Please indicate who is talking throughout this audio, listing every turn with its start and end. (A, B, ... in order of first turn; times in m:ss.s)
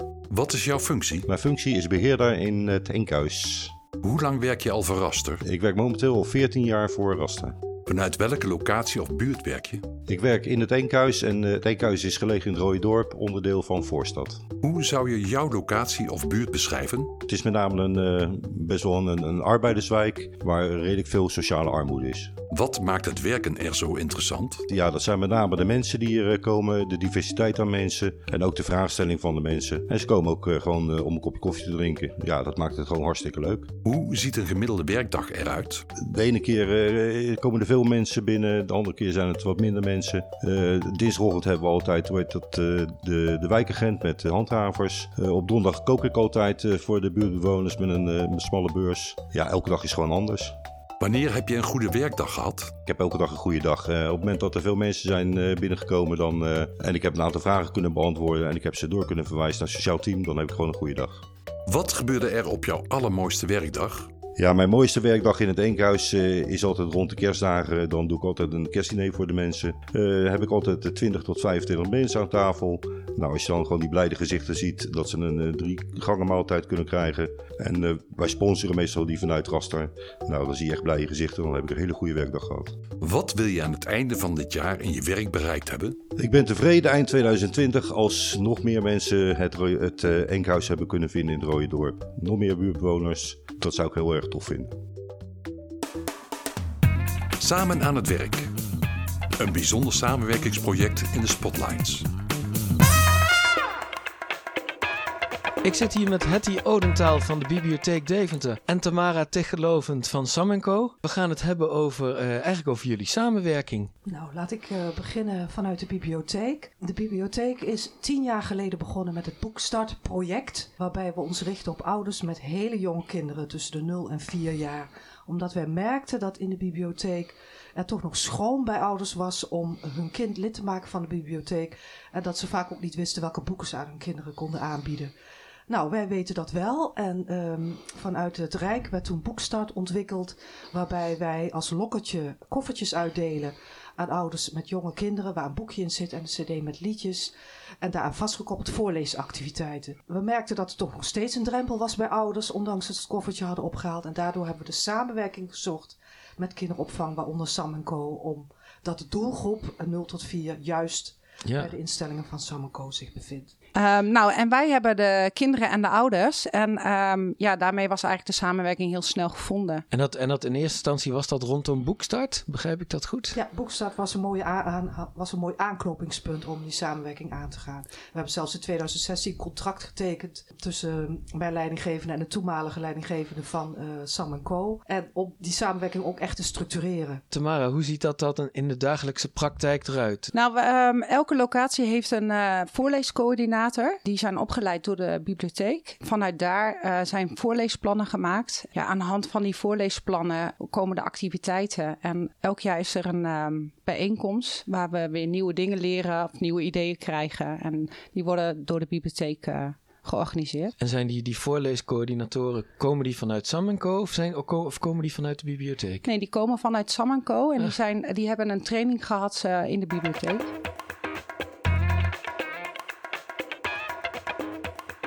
0:00.3-0:01.3 A
0:01.3-0:03.8 B
0:04.0-0:05.4 A
0:05.4-0:07.6 B
0:07.9-0:09.9 A
0:10.1-0:14.4 B
0:14.6-0:17.2 A
0:17.3-0:22.4 B
0:22.5-0:24.6 A
0:24.7-0:33.7 B
0:33.8-0:35.9 A
0:36.0-0:50.6 B
0:51.0-0:52.8 A
0:52.9-1:01.2 B
1:01.7-1:04.1 A
1:04.4-1:22.7 B
1:23.0-1:26.0 A
1:26.2-1:34.7 B
1:37.4-1:38.5 A
1:39.4-1:42.1 A
1:45.6-1:53.9 C
1:54.1-2:15.1 D
2:15.7-2:43.5 D
2:41.4-2:41.7 C
2:43.8-2:49.8 E
2:49.9-2:53.4 C
2:53.3-3:07.2 D
3:07.3-3:10.3 C
3:10.3-3:30.7 E
3:30.8-3:36.1 C
3:36.0-3:40.5 E